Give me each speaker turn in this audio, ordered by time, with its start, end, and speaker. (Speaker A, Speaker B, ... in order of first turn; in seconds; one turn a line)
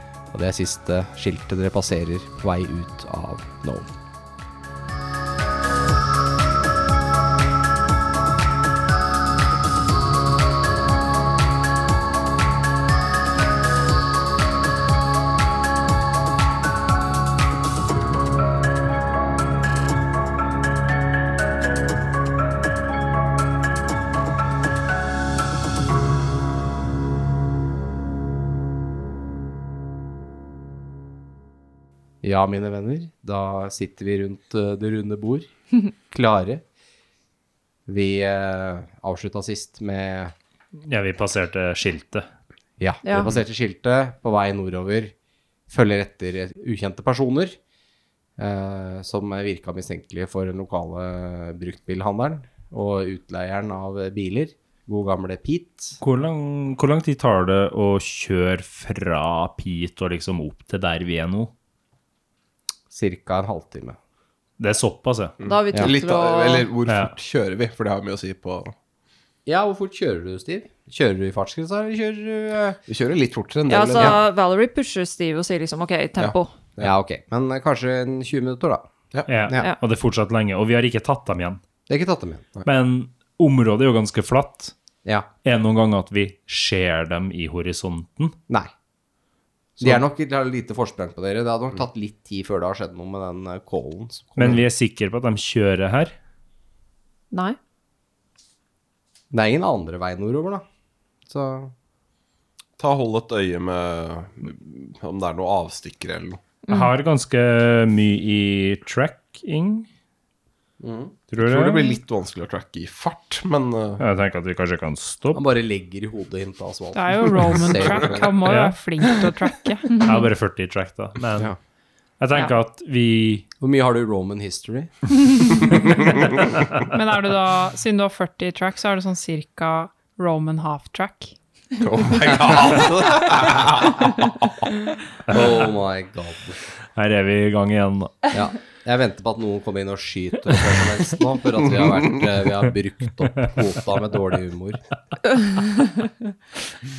Speaker A: 0.3-3.9
Speaker A: 32.2-35.5
Speaker A: 36.1-36.6
Speaker A: 37.9-40.3
Speaker B: 40.8-42.3
Speaker A: 42.8-45.1
Speaker C: 43.0-43.4
Speaker A: 45.7-47.6
Speaker A: 48.4-56.0
Speaker B: 56.0-61.5
Speaker A: 62.9-64.0
Speaker B: 64.6-65.4
Speaker D: 65.4-68.8
Speaker C: 65.5-66.7
Speaker B: 66.9-67.1
Speaker A: 69.5-72.8
Speaker D: 72.9-74.2
Speaker C: 73.7-76.5
Speaker A: 73.8-74.2
Speaker D: 76.2-76.9
Speaker A: 76.8-78.9
Speaker B: 79.3-81.6
Speaker A: 81.9-82.5
Speaker B: 82.7-84.7
Speaker B: 85.4-88.4
Speaker A: 89.8-94.6
Speaker B: 94.4-96.2
Speaker C: 97.3-97.6
Speaker A: 99.3-100.6
Speaker A: 101.3-101.7
Speaker D: 102.8-106.4
Speaker C: 106.7-106.9
Speaker B: 106.7-109.9
Speaker A: 110.8-111.1
Speaker B: 111.3-111.9
Speaker D: 111.4-114.0
Speaker B: 114.0-115.4
Speaker A: 115.3-118.4
Speaker E: 116.9-120.2
Speaker B: 118.5-118.8
Speaker B: 120.0-121.5
Speaker B: 122.2-123.5
Speaker A: 123.6-124.9
Speaker E: 126.9-131.3
Speaker D: 131.8-134.7
Speaker B: 135.3-135.7
Speaker A: 135.3-136.6
Speaker B: 137.0-138.3
Speaker A: 138.3-144.8
Speaker C: 145.2-146.3